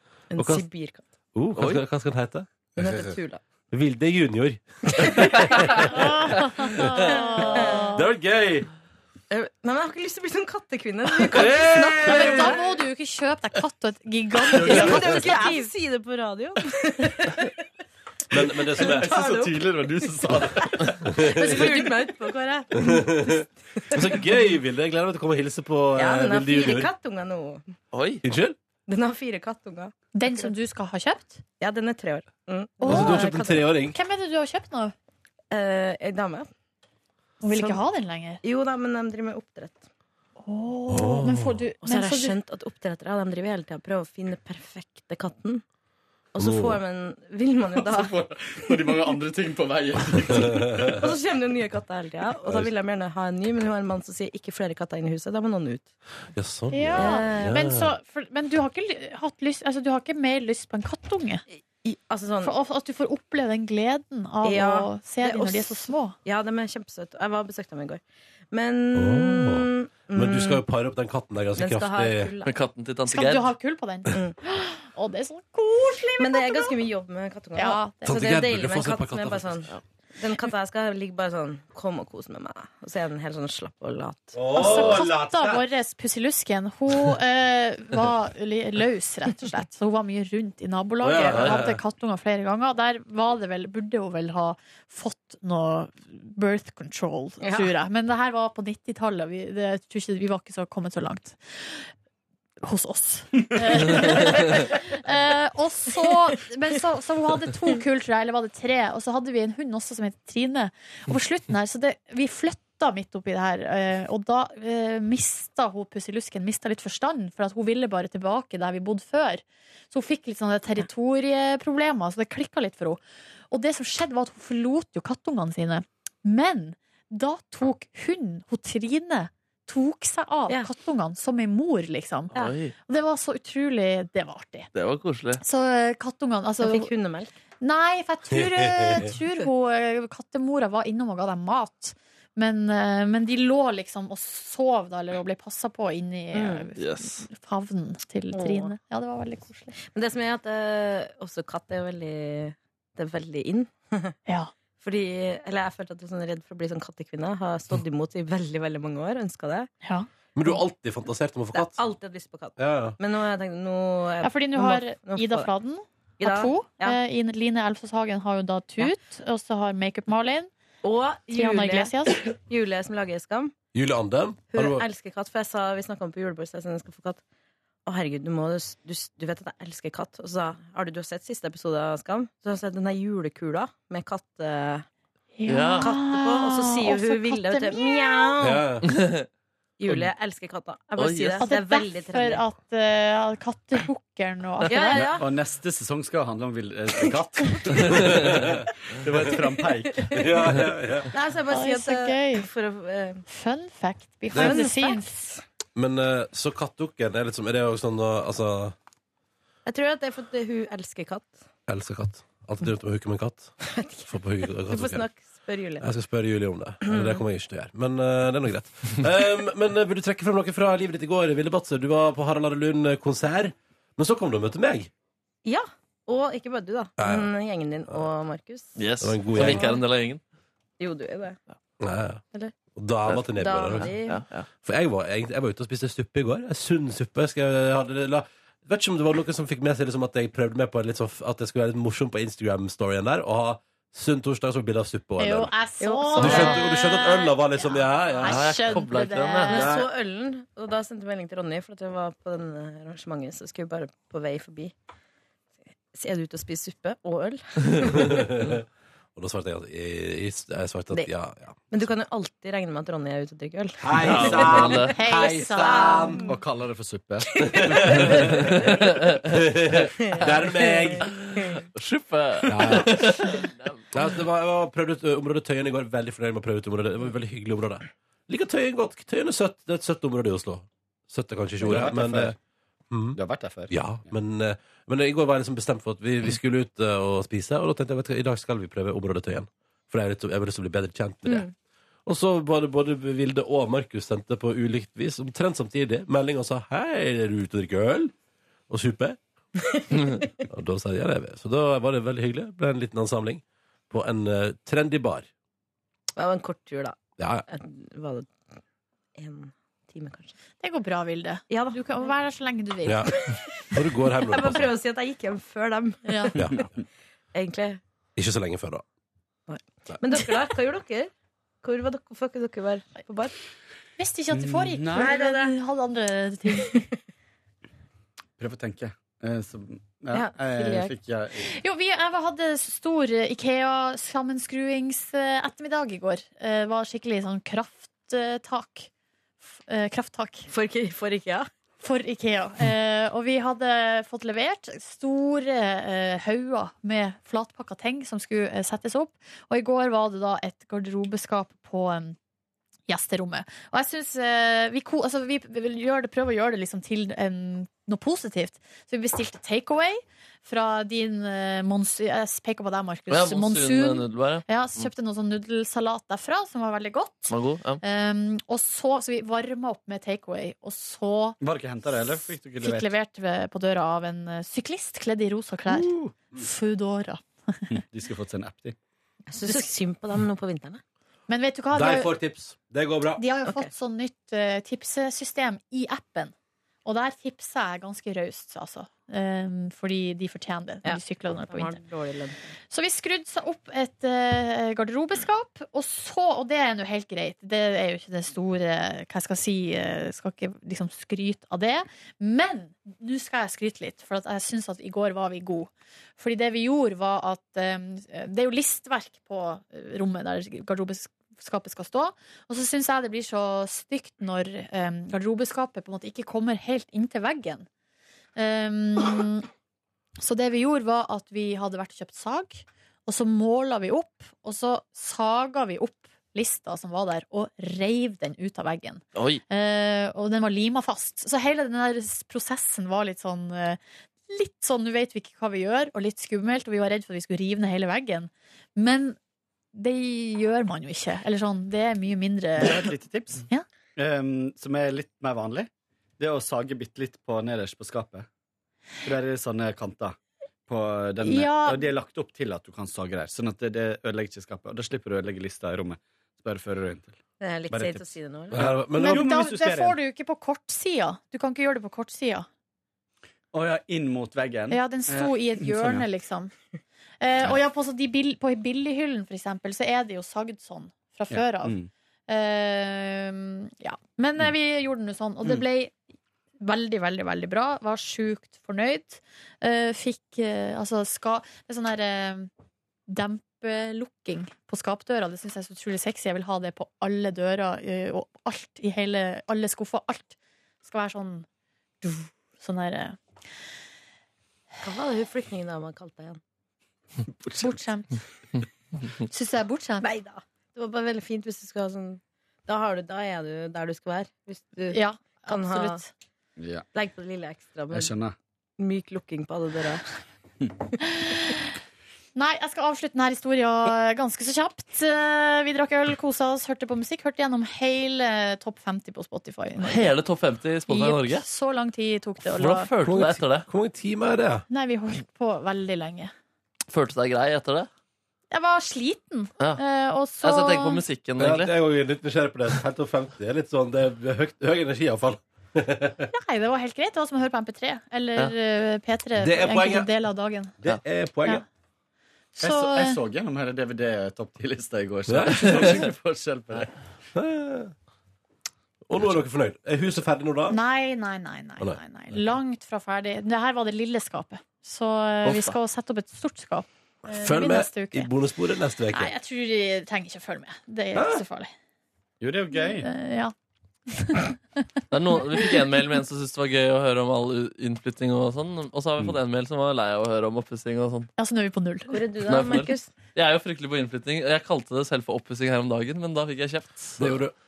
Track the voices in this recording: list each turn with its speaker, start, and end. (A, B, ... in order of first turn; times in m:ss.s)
0:00.3-0:01.1 A
0:00.4-0:00.7 B
0:01.3-0:03.1 B
0:01.6-0:01.8 C
0:02.8-0:03.4 A
0:03.7-0:07.1 B
0:04.9-0:05.5 A
0:05.8-0:08.1 D
0:07.0-0:07.9 A
0:07.8-0:08.7 B
0:09.3-0:12.6 A
0:11.3-0:12.6 B
0:12.0-0:15.6 D
0:14.5-0:17.5 A
0:14.6-0:15.5 E
0:18.3-0:19.2 B
0:18.8-0:19.6 A
0:18.8-0:21.0 E
0:20.6-0:23.2 A
0:21.1-0:21.7 B
0:22.8-0:26.9 B
0:23.9-0:24.2 A
0:26.0-0:27.7 A
0:27.9-0:28.2 C
0:28.2-0:28.6 B
0:28.9-0:30.5 A
0:30.1-0:31.4 D
0:31.6-0:33.7 A
0:32.8-0:34.9 D
0:32.8-0:34.0 B
0:35.5-0:36.5 A
0:37.4-0:38.4 D
0:37.5-0:37.8 A
0:38.4-0:39.9 A
0:40.4-0:42.4 D
0:40.9-0:41.6 B
0:41.8-0:45.6 A
0:46.3-0:48.2 A
0:46.4-0:46.8 B
0:47.8-0:51.0 E
0:50.3-0:50.9 B
0:51.0-0:55.9 A
0:56.4-0:57.9 B
0:56.7-1:01.4 D
0:56.9-0:57.5 A
1:01.6-1:02.5 A
1:02.4-1:06.2 D
1:04.4-1:10.6 A
1:09.0-1:12.3 B
1:11.6-1:12.5 A
1:12.4-1:13.5 C
1:13.1-1:16.8 D
1:14.1-1:14.4 A
1:16.2-1:25.0 A
1:17.6-1:18.2 D
1:18.1-1:19.7 B
1:24.4-1:25.6 B
1:24.5-1:41.9 D
1:31.0-1:31.8 B
1:31.3-1:31.6 C
1:37.4-1:37.7 A
1:42.6-2:03.0 D
2:03.5-2:12.3 D
2:12.3-2:12.7 C
2:12.9-2:14.7 D
2:14.8-2:15.4 C
2:15.4-2:16.9 D
2:16.6-2:17.3 A
2:17.6-2:29.7 D
2:18.3-2:19.1 B
2:26.3-2:26.7 A
2:26.8-2:27.3 C
2:28.3-2:28.7 A
2:29.8-2:34.2 A
2:34.8-2:39.7 A
2:39.8-2:40.1 D
2:40.4-2:41.8 B
2:41.5-2:45.5 A
2:42.6-2:43.0 B
2:44.2-2:50.5 D
2:46.2-2:47.0 A
2:50.8-2:53.5 A
2:51.3-2:52.3 D
2:53.7-2:54.8 B
2:54.5-2:57.2 A
2:57.9-3:04.9 A
3:05.4-3:08.3 D
3:05.5-3:05.9 C
3:05.8-3:08.7 A
3:08.4-3:08.8 B
3:08.8-3:09.3 C
3:09.8-3:12.4 A
3:11.0-3:11.4 C
3:11.4-3:15.2 D
3:14.7-3:15.3 A
3:15.0-3:20.5 E
3:18.0-3:18.6 B
3:20.2-3:21.1 B
3:21.1-3:23.2 A
3:21.5-3:22.5 D
3:23.3-3:25.4 D
3:24.3-3:24.6 B
3:24.3-3:25.1 A
3:25.8-3:28.8 B
3:29.7-3:31.4 A
3:31.7-3:35.1 B
3:33.6-3:35.8 A
3:35.8-3:44.9 B
3:36.8-3:37.2 A
3:45.4-3:48.8 A
3:47.0-3:47.3 B
3:48.8-3:50.2 C
3:49.0-3:49.7 B
3:49.4-3:49.8 A
3:50.8-3:51.4 A
3:51.8-3:52.2 B
3:52.8-3:53.9 B
3:53.3-3:54.2 A
3:53.8-3:54.5 C
3:54.6-4:05.5 B
4:05.2-4:09.7 D
4:05.8-4:06.6 A
4:06.2-4:08.9 B
4:08.2-4:09.7 C
4:09.5-4:14.7 A
4:09.5-4:09.9 B
4:15.9-4:18.2 A
4:18.0-4:18.6 B
4:19.2-4:21.9 B
4:21.7-4:24.5 A
4:23.8-4:26.2 B
4:24.0-4:24.9 C
4:24.7-4:26.2 D
4:25.4-4:26.2 A
4:26.2-4:28.5 E
4:27.3-4:28.1 A
4:27.8-4:28.4 B
4:28.4-4:29.2 C
4:29.3-4:31.2 B
4:30.0-4:31.0 A
4:31.1-4:33.9 C
4:32.5-4:33.3 B
4:33.9-4:42.4 B
4:41.6-4:42.4 E
4:42.9-4:43.2 B
4:43.2-4:44.1 E
4:43.7-4:51.5 B
4:52.1-4:58.1 B
4:58.7-4:59.2 B
4:59.6-5:00.3 A
4:59.9-5:00.2 C
5:00.5-5:05.3 B
5:06.2-5:08.3 A
5:07.2-5:07.5 B
5:09.2-5:10.4 A
5:10.6-5:13.2 D
5:11.5-5:12.1 A
5:12.9-5:14.7 B
5:13.2-5:16.4 A
5:16.0-5:16.4 D
5:16.4-5:16.6 B
5:17.3-5:17.8 A
5:18.2-5:18.8 B
5:19.5-5:21.1 A
5:21.6-5:23.3 A
5:24.0-5:26.8 D
5:24.3-5:25.2 E
5:24.9-5:25.5 A
5:28.4-5:31.5 E
5:30.1-5:30.9 A
5:31.4-5:38.9 D
5:39.5-5:40.5 D
5:40.5-5:41.5 A
5:41.8-5:52.2 D
5:52.9-6:11.4 D
6:03.1-6:04.9 C
6:07.3-6:07.8 C
6:11.4-6:12.9 E
6:11.9-6:17.6 D
6:15.8-6:16.1 E
6:17.7-6:18.8 E
6:19.3-6:20.8 A
6:21.3-6:22.1 D
6:21.7-6:23.2 B
6:23.2-6:26.3 D
6:26.8-6:31.8 D
6:30.8-6:32.5 A
6:32.7-6:57.7 D
6:58.4-6:59.5 D
7:00.2-7:19.2 D
7:09.2-7:09.4 C
7:19.7-7:22.9 D
7:22.6-7:28.3 E
7:29.0-7:30.2 E
7:30.7-7:37.2 E
7:31.2-7:31.9 D
7:37.4-7:38.6 A
7:37.7-7:40.0 E
7:38.5-7:39.4 B
7:39.0-7:42.5 D
7:43.5-7:46.1 E
7:44.7-7:46.5 D
7:47.2-7:51.8 D
7:51.3-7:51.9 E
7:52.3-7:55.9 D
7:56.6-8:02.5 D
8:03.1-8:11.5 D
8:12.0-8:13.2 D
8:14.8-8:16.4 A
8:17.4-8:17.7 E
8:17.6-8:18.2 D
8:19.3-8:20.1 D
8:20.0-8:26.0 A
8:24.9-8:26.1 D
8:26.6-8:26.9 E
8:26.9-8:28.1 A
8:27.9-8:28.4 E
8:28.8-8:30.1 A
8:31.1-8:31.6 D
8:32.4-8:40.1 D
8:39.8-8:41.4 C
8:40.9-8:42.9 D
8:42.6-8:43.7 C
8:43.0-8:44.7 B
8:44.7-8:46.3 D
8:46.9-8:47.9 C
8:48.5-8:51.0 D
8:50.4-8:51.7 C
8:51.4-8:56.3 B
8:56.3-9:00.8 D
8:59.4-9:00.1 B
9:00.8-9:01.6 B
9:02.6-9:03.2 D
9:02.6-9:07.0 E
9:05.3-9:06.1 B
9:07.4-9:07.9 B
9:09.1-9:10.8 B
9:10.7-9:18.3 D
9:15.4-9:15.7 C
9:17.3-9:19.3 B
9:19.1-9:21.7 D
9:21.1-9:21.4 B
9:22.4-9:23.1 E
9:22.9-9:23.5 D
9:24.1-9:24.6 D
9:25.1-9:31.3 C
9:31.4-9:32.2 D
9:32.1-9:33.1 A
9:32.5-9:37.4 C
9:37.2-9:37.5 B